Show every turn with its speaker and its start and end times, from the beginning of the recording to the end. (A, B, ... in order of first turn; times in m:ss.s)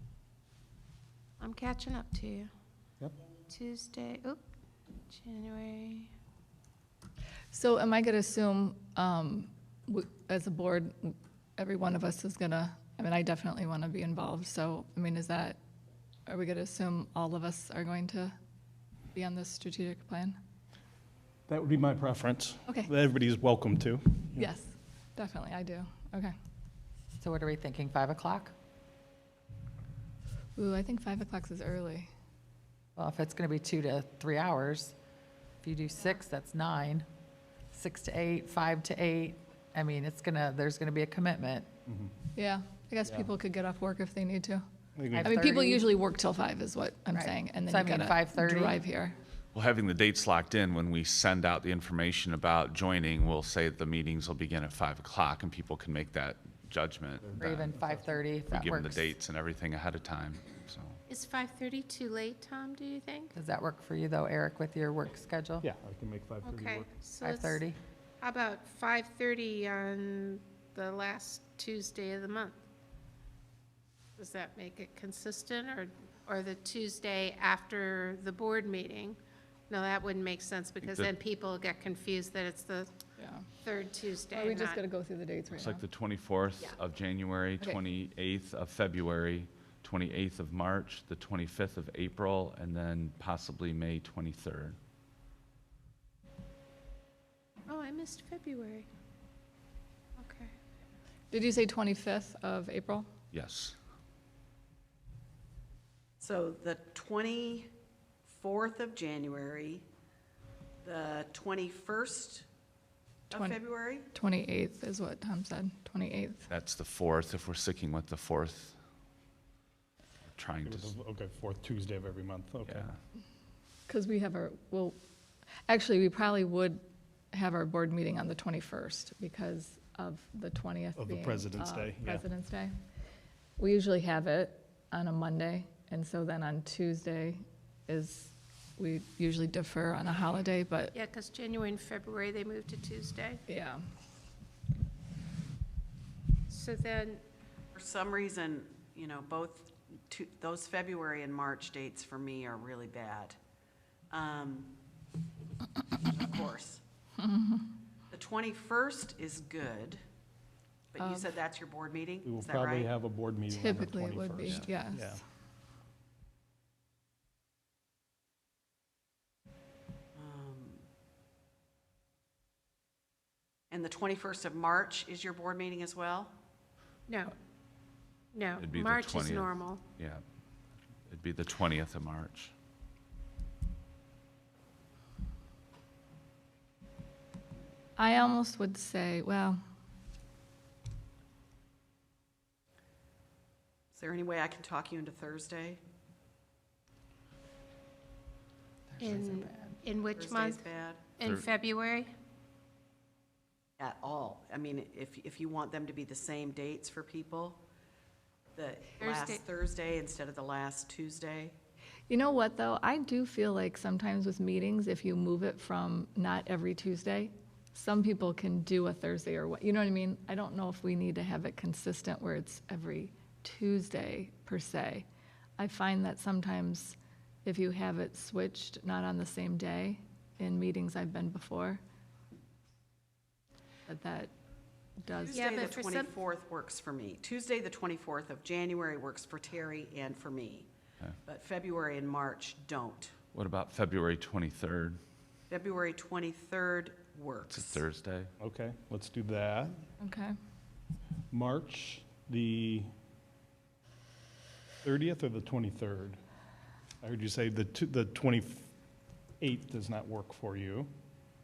0:01.4-0:02.5 A
0:03.5-0:04.4 A
0:05.1-0:06.1 A
0:07.5-0:15.6 B
0:16.3-0:18.4 B
0:19.1-0:20.4 B
0:21.5-0:24.5 C
0:24.4-0:26.3 B
0:27.2-0:28.5 D
0:30.6-0:32.1 B
0:33.0-0:35.0 D
0:35.6-0:37.1 D
0:37.7-0:41.7 D
0:41.9-0:42.2 C
0:42.4-0:44.6 B
0:43.0-0:43.3 C
0:45.0-0:45.4 C
0:45.1-0:45.9 D
0:45.2-0:49.2 B
0:47.1-0:48.8 D
0:49.5-0:57.6 E
0:57.2-0:58.2 C
0:57.4-0:59.1 D
0:58.5-1:01.0 E
1:01.1-1:03.3 A
1:03.3-1:05.7 D
1:05.6-1:06.9 C
1:06.4-1:07.6 A
1:07.2-1:07.8 D
1:08.2-1:12.6 A
1:14.2-1:19.2 A
1:19.7-1:22.9 A
1:20.8-1:21.1 E
1:23.2-1:23.5 B
1:23.6-1:24.8 A
1:24.3-1:25.8 B
1:25.5-1:34.8 E
1:37.7-1:38.9 A
1:40.2-1:40.5 A
1:41.3-1:43.1 B
1:43.3-1:43.8 E
1:46.2-1:47.7 F
1:48.3-1:49.8 F
1:50.8-1:52.5 F
1:53.3-1:54.1 F
1:53.3-1:56.5 B
1:56.5-1:58.8 E
2:00.3-2:01.0 E
2:00.6-2:02.9 C
2:02.7-2:02.9 E
2:03.9-2:05.0 B
2:05.7-2:12.8 B
2:11.0-2:12.2 C
2:13.6-2:20.9 B
2:20.9-2:23.4 A
2:23.5-2:23.8 B
2:26.5-2:27.2 A
2:27.8-2:33.4 F
2:34.1-2:34.7 F
2:35.9-2:36.8 F
2:37.2-2:37.7 B
2:38.1-2:40.0 F
2:40.9-2:42.9 F
2:41.0-2:41.3 B
2:42.2-2:45.2 C
2:43.5-2:45.2 B
2:50.2-2:50.8 F
2:53.7-2:56.3 F
2:57.1-2:57.3 A
2:58.3-2:59.8 A
2:58.6-3:00.2 E
3:01.1-3:02.5 E
3:08.0-3:09.6 B
3:13.9-3:15.8 F
3:18.9-3:19.8 D
3:19.0-3:20.7 A
3:20.2-3:21.1 F
3:21.2-3:22.1 A
3:21.2-3:21.5 E
3:23.8-3:27.6 F
3:28.6-3:31.6 F
3:29.0-3:29.4 A
3:32.1-3:45.1 B
3:45.6-3:51.8 B
3:53.9-3:54.3 B
3:55.0-3:55.6 B
3:55.1-4:00.7 F
3:55.3-3:56.1 A
4:01.2-4:03.1 F
4:03.3-4:05.0 E
4:05.5-4:07.8 F
4:07.5-4:08.3 E
4:08.4-4:09.8 C
4:10.0-4:10.4 B
4:11.3-4:12.9 C
4:14.8-4:16.2 C
4:17.0-4:18.7 C
4:19.4-4:20.9 C